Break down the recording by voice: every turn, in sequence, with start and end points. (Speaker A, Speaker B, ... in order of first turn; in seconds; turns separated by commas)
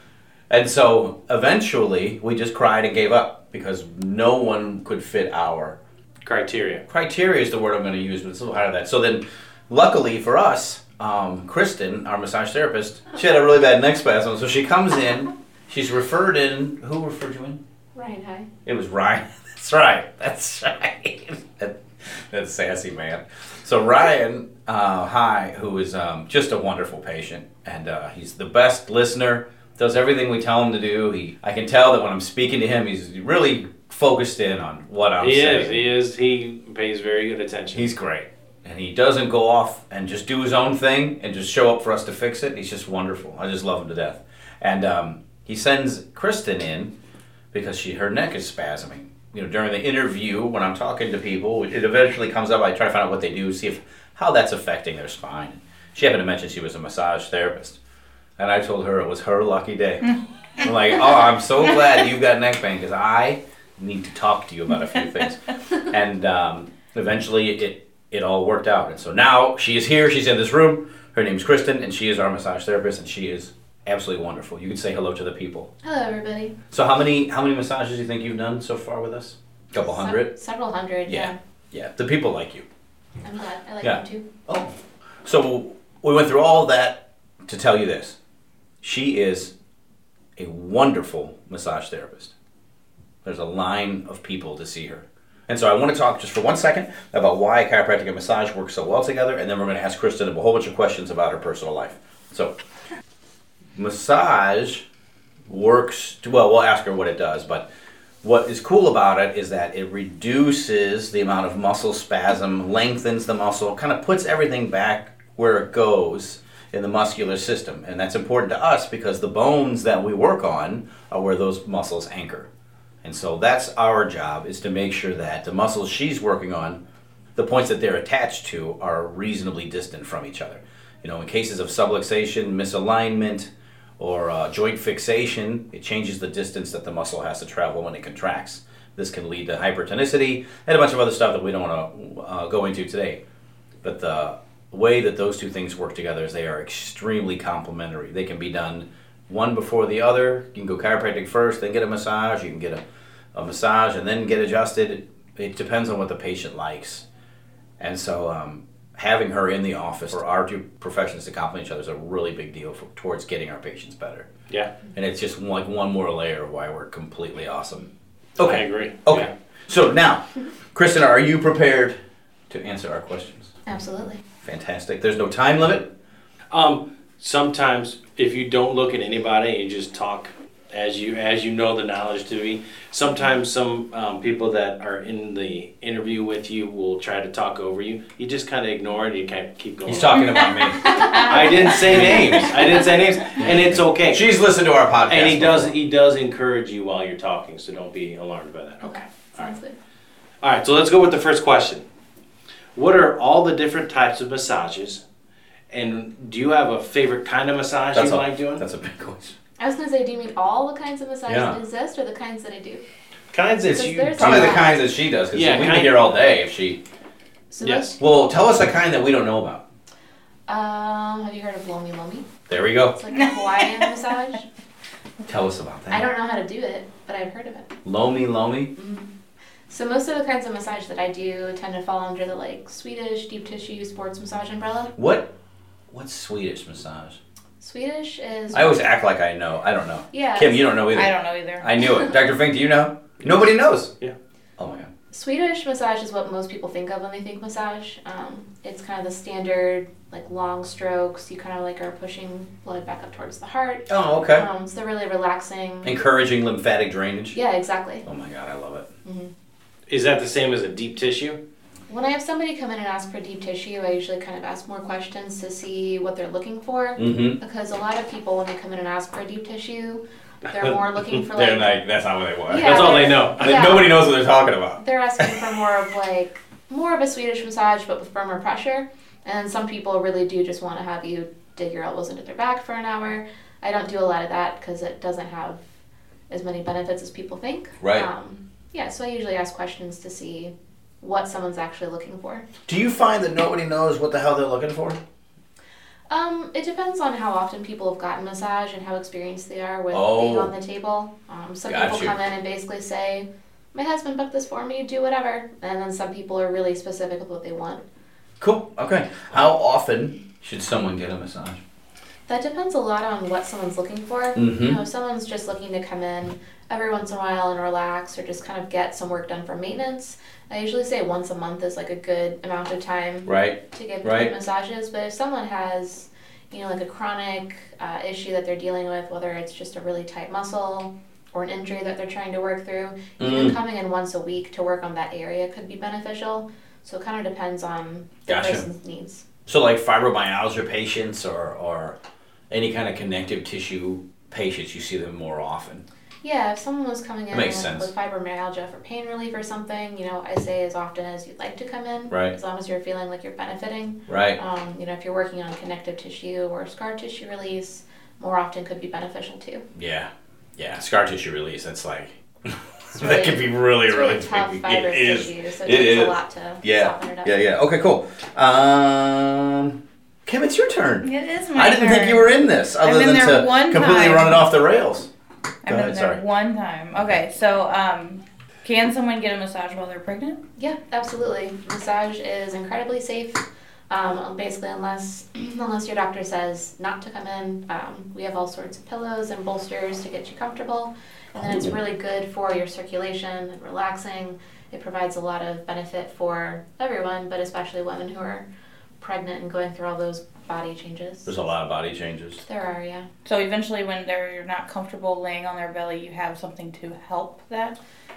Speaker A: 0.5-5.8, Speaker B: 6.2-6.8, Speaker A: 6.9-17.6, Speaker C: 17.9-18.5, Speaker A: 18.7-35.9, Speaker B: 35.2-37.9, Speaker A: 37.7-46.9, Speaker A: 47.5-57.8, Speaker A: 58.4-75.7, Speaker C: 75.8-76.6, Speaker A: 76.7-80.3, Speaker C: 79.8-81.4, Speaker A: 81.1-82.7, Speaker C: 83.2-84.3, Speaker A: 83.8-84.7, Speaker A: 85.2-88.2, Speaker A: 88.8-89.5, Speaker A: 90.4-92.3, Speaker A: 93.2-102.6, Speaker A: 103.8-104.8, Speaker A: 105.5-107.7, Speaker A: 108.2-122.5, Speaker A: 123.0-126.8, Speaker A: 127.4-143.2, Speaker A: 143.8-152.8, Speaker A: 153.3-157.1, Speaker A: 157.8-164.3, Speaker A: 164.9-172.0, Speaker B: 168.4-169.3, Speaker A: 172.5-173.5, Speaker C: 173.7-174.2, Speaker A: 174.4-175.9, Speaker B: 176.5-190.3, Speaker A: 189.8-191.2, Speaker C: 190.8-191.5, Speaker D: 190.9-192.1, Speaker B: 191.1-194.2, Speaker A: 191.7-192.5, Speaker A: 193.4-195.7, Speaker B: 195.1-199.0, Speaker C: 198.8-199.8, Speaker B: 200.4-201.8, Speaker B: 202.8-205.0, Speaker B: 205.7-208.6, Speaker A: 207.9-209.3, Speaker C: 209.6-212.8, Speaker A: 211.3-211.6, Speaker B: 213.3-214.7, Speaker C: 213.7-214.8, Speaker A: 214.1-216.8, Speaker B: 215.3-216.2, Speaker C: 217.5-218.0, Speaker B: 217.6-217.9, Speaker A: 218.0-219.6, Speaker C: 220.5-222.3, Speaker A: 222.5-223.0, Speaker C: 223.0-224.4, Speaker D: 223.1-223.8, Speaker A: 225.3-226.0, Speaker C: 225.9-227.7, Speaker A: 227.8-228.7, Speaker C: 228.8-229.1, Speaker C: 229.7-234.9, Speaker A: 235.0-235.3, Speaker A: 235.9-237.2, Speaker C: 237.6-238.7, Speaker A: 238.5-243.9, Speaker C: 240.1-240.7, Speaker D: 240.9-241.7, Speaker A: 244.6-244.9, Speaker C: 245.1-256.0, Speaker A: 253.9-254.5, Speaker A: 255.8-257.4, Speaker C: 257.3-258.1, Speaker A: 258.1-258.9, Speaker C: 259.1-259.3, Speaker B: 259.9-261.4, Speaker C: 261.9-271.8, Speaker A: 267.0-267.4, Speaker A: 271.3-275.4, Speaker C: 272.5-273.9, Speaker B: 272.6-273.9, Speaker C: 274.8-285.6, Speaker C: 286.3-292.5, Speaker A: 287.8-288.1, Speaker A: 292.7-295.0, Speaker C: 296.1-307.8, Speaker A: 299.9-300.5, Speaker A: 301.7-302.1, Speaker A: 308.4-311.6, Speaker C: 312.3-339.2, Speaker A: 314.4-314.8, Speaker A: 323.3-324.3, Speaker A: 333.2-333.6, Speaker A: 338.3-338.6, Speaker A: 339.5-342.0, Speaker A: 342.5-345.9, Speaker C: 346.2-359.7, Speaker A: 347.3-347.9, Speaker A: 354.1-354.4, Speaker A: 359.8-375.1, Speaker C: 362.9-367.3, Speaker D: 371.0-372.3, Speaker D: 372.8-374.3, Speaker A: 375.6-376.2, Speaker D: 375.6-380.4, Speaker C: 380.6-398.5, Speaker A: 391.4-391.8, Speaker C: 399.0-401.4, Speaker A: 401.3-402.4, Speaker C: 402.4-403.1, Speaker D: 403.2-407.8